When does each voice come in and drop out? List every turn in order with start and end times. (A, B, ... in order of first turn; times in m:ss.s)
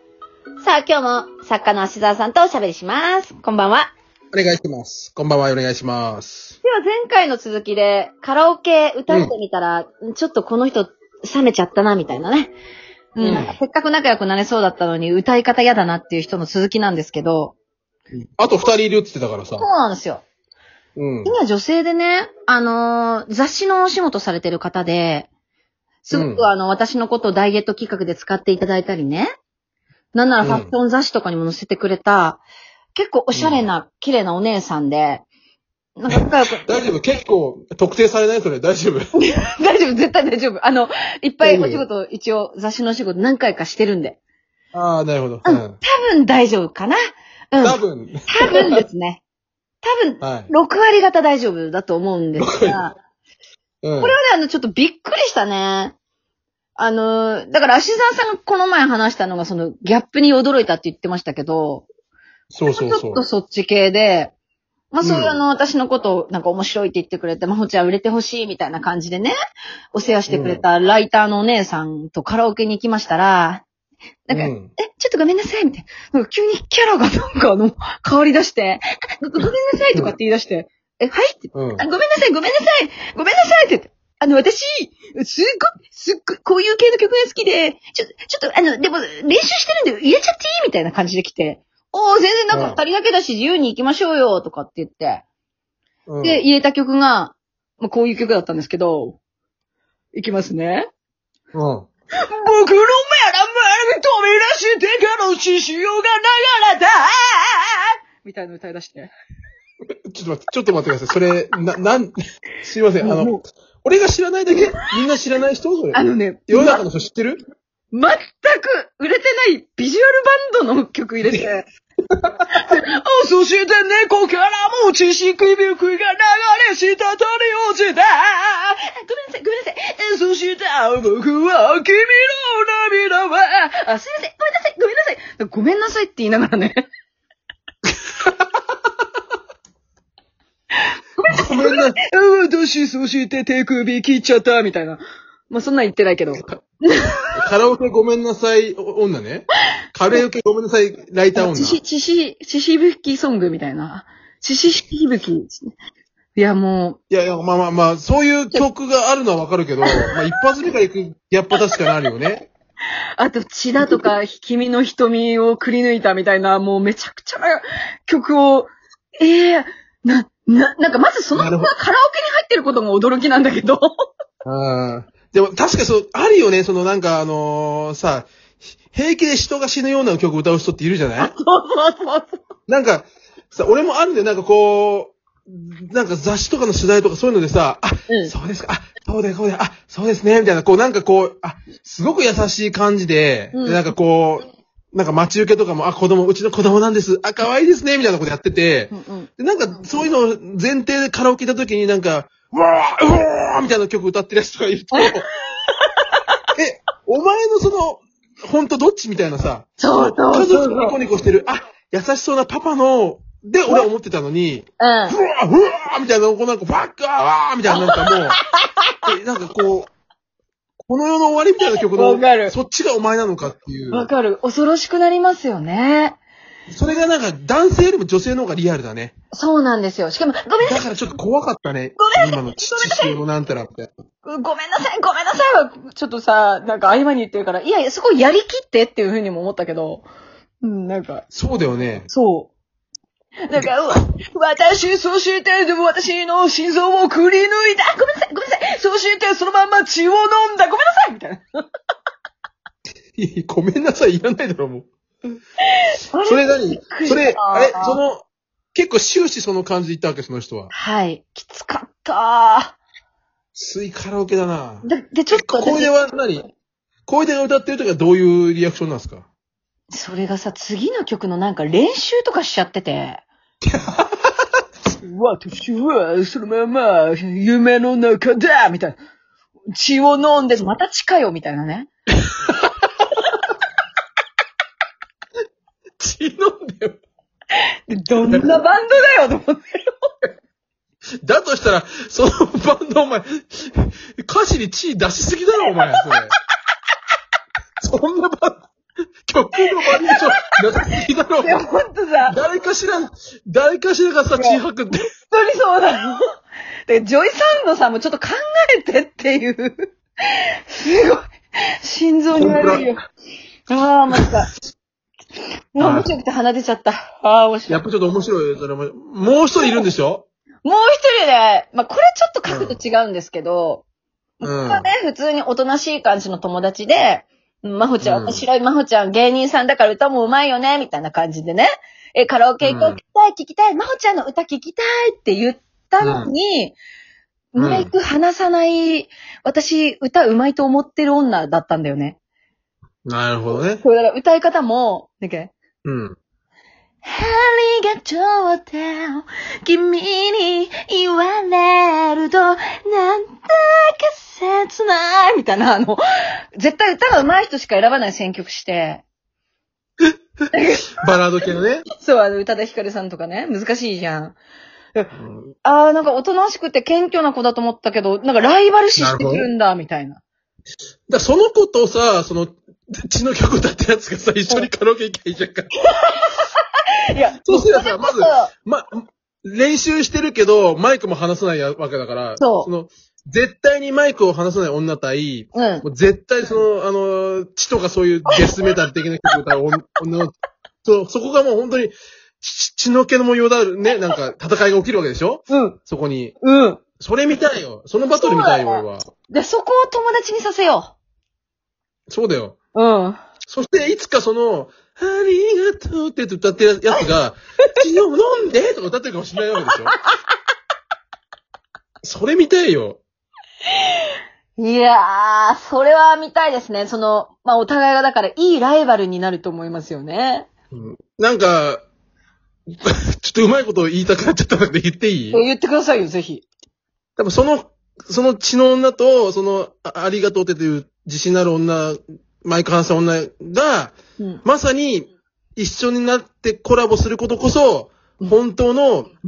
0:00.6-0:03.9 A
0:04.3-0:06.6 B
0:06.6-0:12.5 A
0:13.2-0:17.6 A
0:13.2-0:13.6 B
0:18.4-0:19.7 B
0:19.6-0:20.2 A
0:21.0-0:21.4 B
0:21.2-0:25.3 A
0:26.0-0:29.3 A
0:26.1-0:26.4 B
0:30.1-0:32.4 A
0:30.4-0:30.7 B
0:33.0-0:35.2 A
0:33.3-0:33.6 B
0:36.0-0:36.6 A
0:36.1-0:39.0 B
0:39.2-0:44.2 A
0:41.4-0:41.9 B
0:44.7-0:45.8 B
0:45.5-0:49.2 A
0:47.6-0:48.8 B
0:49.8-0:53.0 A
0:50.2-0:50.5 B
0:52.4-0:52.8 B
0:53.8-0:54.2 B
0:54.0-0:56.0 A
0:56.8-1:01.9 A
1:02.5-1:03.3 B
1:02.7-1:04.3 A
1:04.9-1:09.4 A
1:05.0-1:05.4 B
1:09.9-1:13.6 A
1:10.3-1:10.6 B
1:14.3-1:35.2 A
1:14.3-1:14.7 B
1:21.5-1:21.8 B
1:32.5-1:32.8 B
1:36.1-1:36.4 B
1:36.2-1:39.2 A
1:40.1-1:40.9 A
1:41.5-1:41.9 B
1:42.3-1:49.1 A
1:50.1-1:57.4 B
1:53.0-1:53.4 A
1:55.9-1:56.8 A
1:57.9-2:01.7 A
2:02.5-2:16.8 A
2:21.2-2:27.0 A
2:21.3-2:22.0 B
2:27.3-2:31.8 B
2:31.4-2:35.7 A
2:36.4-2:37.0 A
2:37.1-2:42.4 B
2:43.2-2:53.9 A
2:51.3-2:51.7 B
2:54.4-2:58.3 B
2:58.9-3:01.3 B
3:01.2-3:02.3 A
3:02.7-3:25.3 B
3:13.5-3:13.8 A
3:18.9-3:19.3 A
3:24.9-3:26.2 A
3:26.6-3:38.4 B
3:29.8-3:31.0 A
3:34.8-3:35.2 A
3:37.7-3:39.0 A
3:39.0-3:39.9 B
3:40.8-3:44.1 B
3:42.0-3:42.6 A
3:43.9-3:46.2 A
3:46.7-3:49.1 B
3:49.3-3:50.9 A
3:50.6-3:53.9 B
3:52.0-3:53.2 A
3:54.2-4:00.1 A
4:00.6-4:01.2 A
4:01.3-4:02.1 B
4:02.1-4:02.5 A
4:03.5-4:11.4 A
4:13.2-4:14.9 B
4:15.7-4:18.0 A
4:16.2-4:20.7 B
4:20.7-4:22.8 A
4:23.6-4:26.4 B
4:24.8-4:25.9 A
4:27.1-4:29.3 B
4:29.9-4:33.2 A
4:33.6-4:34.3 B
4:35.0-4:39.0 A
4:39.7-4:41.9 A
4:46.0-4:47.0 B
4:47.9-4:50.0 A
4:48.2-4:48.5 B
4:51.2-4:56.3 B
4:57.8-4:58.7 B
4:59.2-5:01.6 B
5:00.0-5:00.2 A
5:01.4-5:02.4 A
5:02.3-5:05.0 B
5:05.3-5:06.2 A
5:06.9-5:11.3 A
5:11.8-5:13.0 A
5:12.3-5:12.9 B
5:13.7-5:14.5 A
5:15.8-5:17.8 A
5:15.8-5:16.1 B
5:17.7-5:20.3 B
5:20.6-5:23.8 A
5:22.5-5:22.8 B
5:24.4-5:24.9 B
5:24.4-5:36.8 A
5:28.0-5:28.4 B
5:32.6-5:33.0 B
5:36.0-5:36.3 B
5:37.5-5:42.2 A
5:37.6-5:37.9 B
5:43.1-5:43.8 B
5:43.8-5:45.5 A
5:45.8-5:46.2 B
5:47.0-5:56.0 A
5:56.6-5:59.0 A
6:00.5-6:01.0 A
6:01.0-6:01.9 B
6:02.0-6:04.4 A
6:05.2-6:05.5 B
6:05.6-6:10.2 A
6:09.0-6:09.5 B
6:11.1-6:15.7 B
6:15.9-6:16.5 A
6:17.1-6:18.5 A
6:17.4-6:36.4 B
6:22.4-6:22.7 A
6:25.6-6:25.8 A
6:28.3-6:28.8 A
6:35.5-6:35.8 A
6:36.4-6:36.8 A
6:37.0-6:39.1 B
6:38.2-6:41.0 A
6:42.1-6:42.6 B
6:42.7-6:43.2 A
6:43.5-6:50.0 B
6:52.0-6:53.0 B
6:54.6-7:00.5 A
7:00.7-7:01.8 B
7:02.8-7:05.4 B
7:05.3-7:06.4 A
7:07.2-7:19.1 B